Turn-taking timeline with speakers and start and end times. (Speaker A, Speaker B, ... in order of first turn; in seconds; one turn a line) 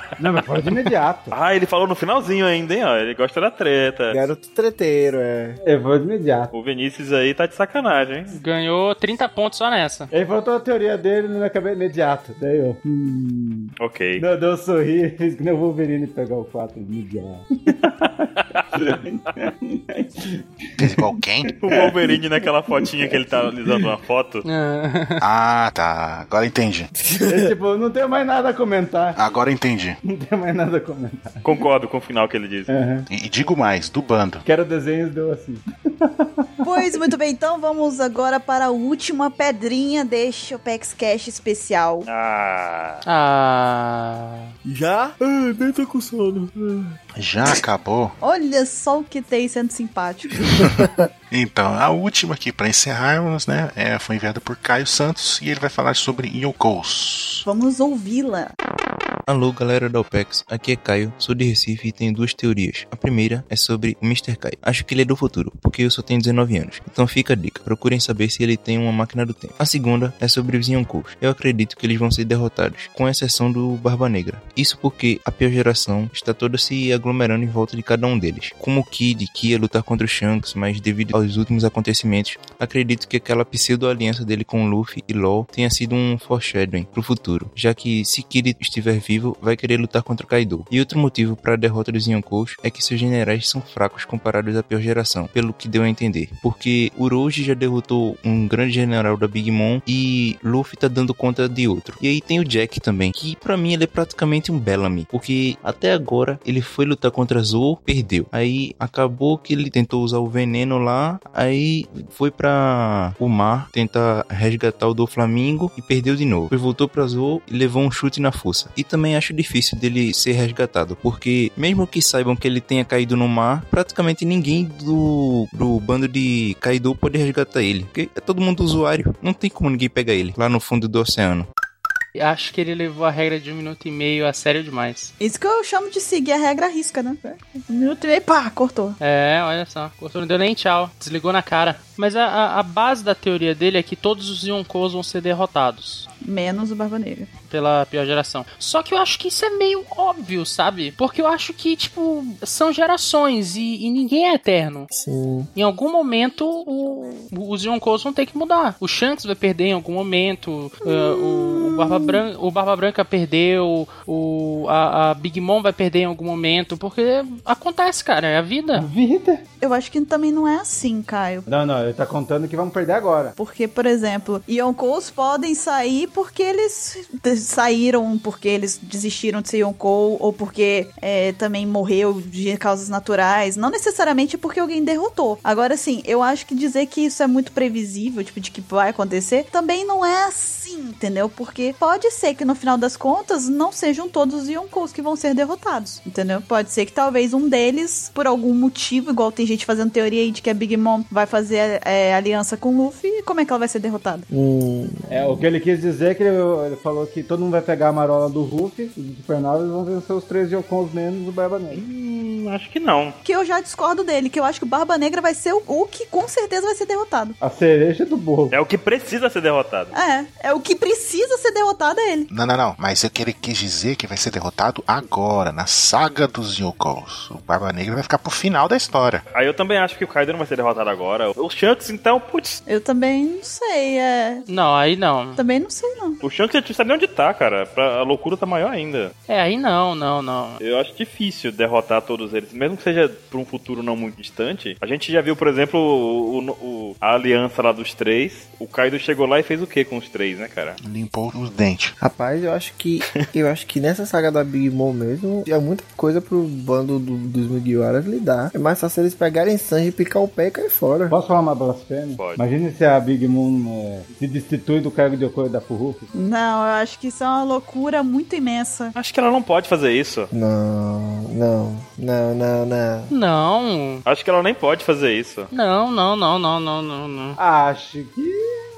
Speaker A: 0.2-1.3
Speaker B: 1.3-4.2
Speaker C: 4.1-5.6
Speaker A: 5.6-6.5
Speaker B: 6.5-8.3
Speaker D: 8.3-10.1
Speaker A: 10.1-20.2
Speaker B: 13.8-14.2
Speaker A: 20.8-21.0
Speaker E: 20.8-21.5
Speaker B: 21.6-24.4
Speaker A: 21.7-22.1
Speaker D: 24.4-25.2
Speaker E: 25.2-26.9
Speaker C: 27.1-27.5
Speaker A: 27.2-29.2
Speaker E: 29.1-30.0
Speaker A: 30.0-31.4
Speaker B: 31.4-32.7
Speaker A: 32.7-33.1
Speaker E: 33.1-34.4
Speaker A: 34.4-35.6
Speaker F: 36.6-42.1
Speaker B: 42.0-43.0
Speaker D: 43.0-44.5
Speaker C: 44.7-46.5
Speaker E: 47.1-48.1
Speaker F: 48.2-50.5
Speaker E: 51.3-57.4
Speaker F: 57.4-58.5
Speaker G: 59.3-131.5
Speaker D: 132.1-135.1
Speaker F: 135.2-139.0
Speaker D: 139.0-146.1
Speaker F: 146.2-147.3
Speaker D: 147.5-154.9
Speaker C: 154.9-155.5
Speaker D: 155.5-168.9
Speaker F: 160.9-162.1
Speaker A: 168.8-169.4
Speaker F: 169.6-171.4
Speaker A: 171.5-173.3
Speaker F: 173.4-204.3
Speaker C: 204.3-205.4
Speaker A: 205.1-211.8
Speaker B: 211.7-213.2
Speaker F: 213.2-217.3
Speaker A: 217.4-218.5
Speaker B: 218.5-219.9
Speaker F: 219.9-222.3
Speaker E: 222.3-229.2
Speaker B: 229.3-232.6
Speaker F: 232.7-234.4
Speaker D: 234.5-235.4
Speaker F: 235.3-236.2
Speaker B: 236.2-239.1
Speaker D: 239.3-240.6
Speaker B: 240.6-250.8
Speaker E: 250.8-251.9
Speaker C: 252.0-261.1
Speaker A: 261.1-266.1
Speaker F: 266.1-268.9
Speaker B: 268.9-270.3
Speaker C: 270.3-273.1
Speaker D: 273.1-274.0
Speaker B: 274.1-275.5
Speaker D: 275.5-277.4
Speaker A: 277.4-278.6